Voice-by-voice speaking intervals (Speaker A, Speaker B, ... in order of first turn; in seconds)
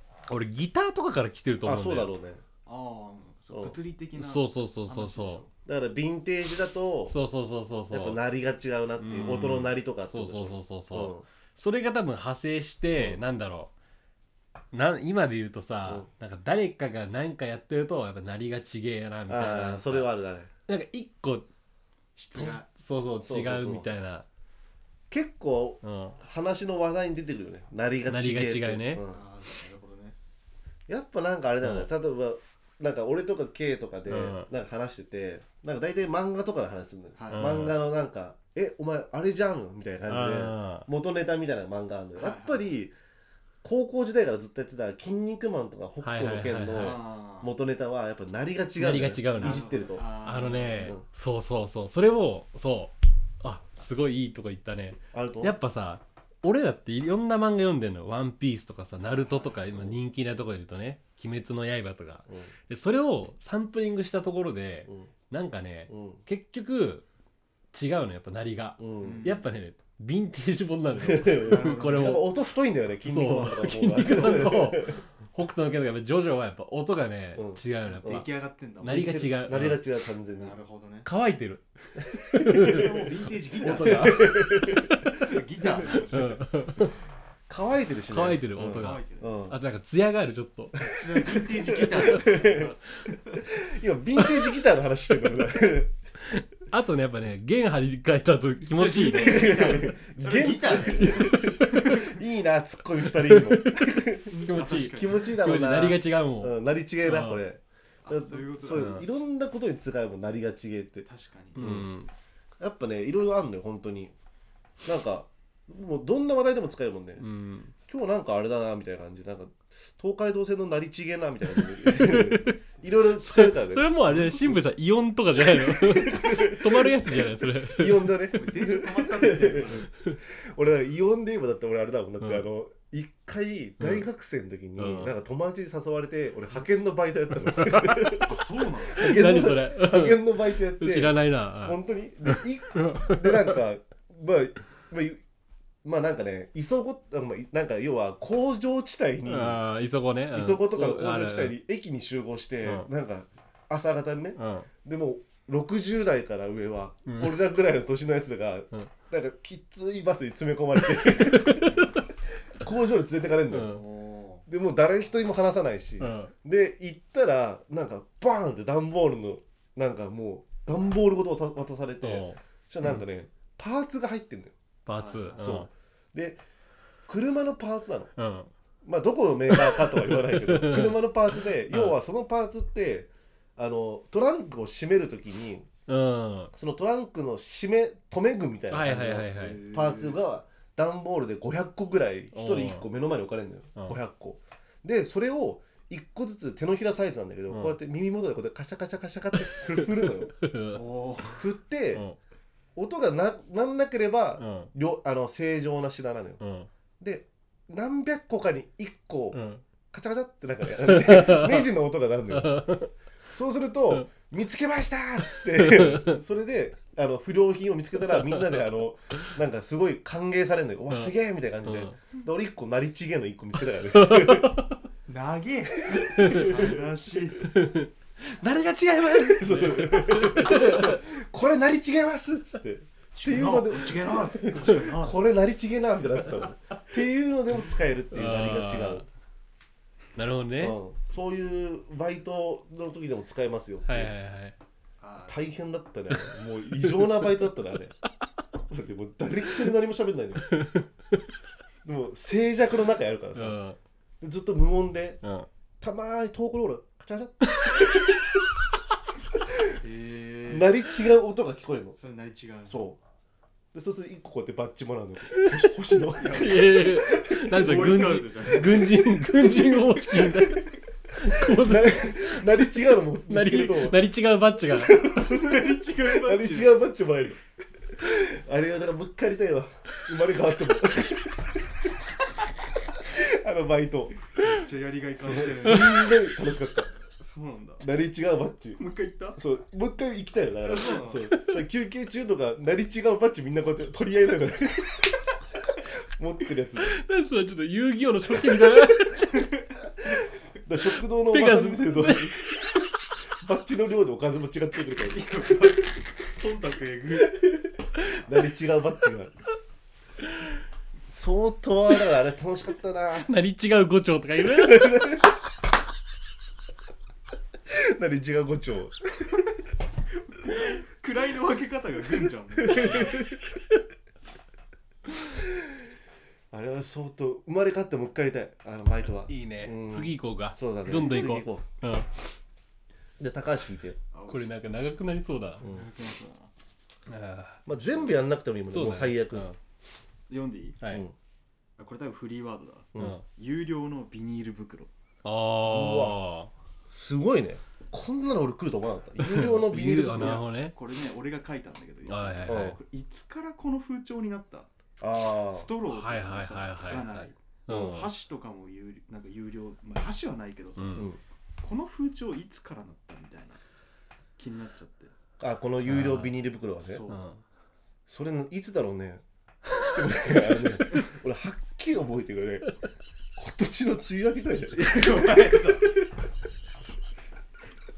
Speaker A: 0.3-2.1, 4.2-5.4, 7.1-8.2, 9.0-13.7, 14.7-20.1, 20.7-21.5, 22.3-24.3, 25.8-26.2, 28.1-29.0, 34.0-34.5, 37.3-37.8, 40.1-40.9, 46.0-47.0, 48.8-67.0, 67.7-72.3, 73.0-78.3, 78.8-79.8, 81.0-85.2, 85.8-87.0, 88.1-90.9, 94.2-94.5, 96.2-99.7, 100.9-102.1, 103.0-107.4, 108.7-109.0, 111.5-112.1, 117.2-117.7, 121.6-122.6, 123.2-128.2, 129.8-130.2, 133.8-134.0, 134.8-135.1, 137.5-138.3, 138.9-143.6, 149.2-151.6, 154.4-154.7, 157.1-157.4, 161.0-162.0, 163.5-163.8, 166.0-166.3, 172.0-173.0, 174.8-175.7, 178.2-178.5, 179.5-181.1, 181.7-181.9, 185.9-186.5, 188.7-189.6, 192.3-192.9, 197.5-197.8, 199.4-200.8, 204.4-204.7, 206.4-206.7, 209.3-209.6, 210.8-211.7, 212.3-212.9, 215.3-216.2, 221.6-222.0, 223.9-224.7, 226.2-226.5, 227.4-231.0, 238.1-239.1, 240.2-240.8, 243.9-244.6, 246.8-247.2, 250.5-251.2, 253.3-253.8, 255.2-255.5, 257.4-257.9, 265.3-275.0, 296.8-299.5, 301.2-302.7, 313.2-315.2, 329.3-332.4, 334.3-335.6, 337.1-337.6, 338.7-339.6, 340.8-341.1, 343.0-343.2, 345.2-346.5, 349.2-350.8, 352.1-352.8, 355.9-358.1, 360.8-361.1, 365.9-366.3, 367.1-367.4
Speaker B: 1.6-2.4, 5.6-7.2, 7.9-11.2, 12.9-13.2, 19.3-20.5, 22.9-23.9, 25.1-29.2, 30.9-42.9, 43.6-51.0, 55.1-55.5, 65.9-66.2, 68.8-69.3, 71.0-75.0, 77.3-78.2, 78.8-80.6, 82.1-85.1, 87.5-89.6, 90.8-92.7, 93.4-95.9, 99.1-111.0, 111.6-111.9, 112.6-114.1, 114.8-117.2, 117.9-124.3, 125.5-145.2, 145.8-149.6, 150.3-161.9, 162.5-163.8, 164.4-174.6, 175.4-176.4, 177.1-178.1, 178.8-185.7, 186.5-200.3, 201.4-202.0, 202.8-206.4, 207.0-209.4, 209.9-212.6, 213.3-224.6, 225.8-226.8, 229.1-239.1, 240.6-244.1, 245.3-247.9, 248.7-250.5, 251.8-253.6, 254.2-255.2, 255.8-258.4, 260.5-261.9, 262.7-263.0, 263.7-267.7, 268.5-269.6, 271.3-274.1, 274.6-277.4, 277.9-281.6, 282.9-284.2, 285.2-286.9, 287.8-288.8, 289.4-297.0, 300.6-302.4, 303.4-305.8, 307.2-307.5, 308.2-309.3, 311.1-313.3, 314.4-315.3, 317.6-319.3, 322.6-323.4, 326.5-331.6, 333.2-334.0, 337.6-339.5, 345.7-346.2, 346.9-350.4, 352.5-352.8, 355.0-355.7, 357.7-357.9, 365.4-367.1, 368.1-369.2, 369.8-372.7, 373.4-375.6
Speaker C: 2.6-5.5, 22.1-22.9, 29.1-30.1, 37.2-37.7, 42.2-42.7, 46.7-47.5, 49.4-50.9, 59.1-59.7, 69.0-69.4, 71.3-72.3, 78.0-79.2, 80.4-81.1, 82.5-84.4, 85.1-86.5, 88.7-89.4, 90.8-93.4, 98.7-102.2, 104.3-105.3, 108.0-109.0, 111.0-111.8, 128.3-129.9, 138.2-139.2, 163.6-164.4, 175.0-175.7, 189.3-190.2, 200.7-201.4, 225.1-227.5, 233.1-235.2, 245.0-245.4, 259.7-260.8, 261.9-262.9, 266.0-269.0, 275.0-276.8, 284.4-286.1, 287.2-287.9, 288.8-289.4, 290.6-291.3, 304.9-307.5, 320.3-323.3, 334.1-334.6, 335.6-336.5, 340.3-340.8, 341.8-344.9, 350.1-354.7, 355.3-363.6, 364.4-365.1, 366.8-367.2, 374.7-375.9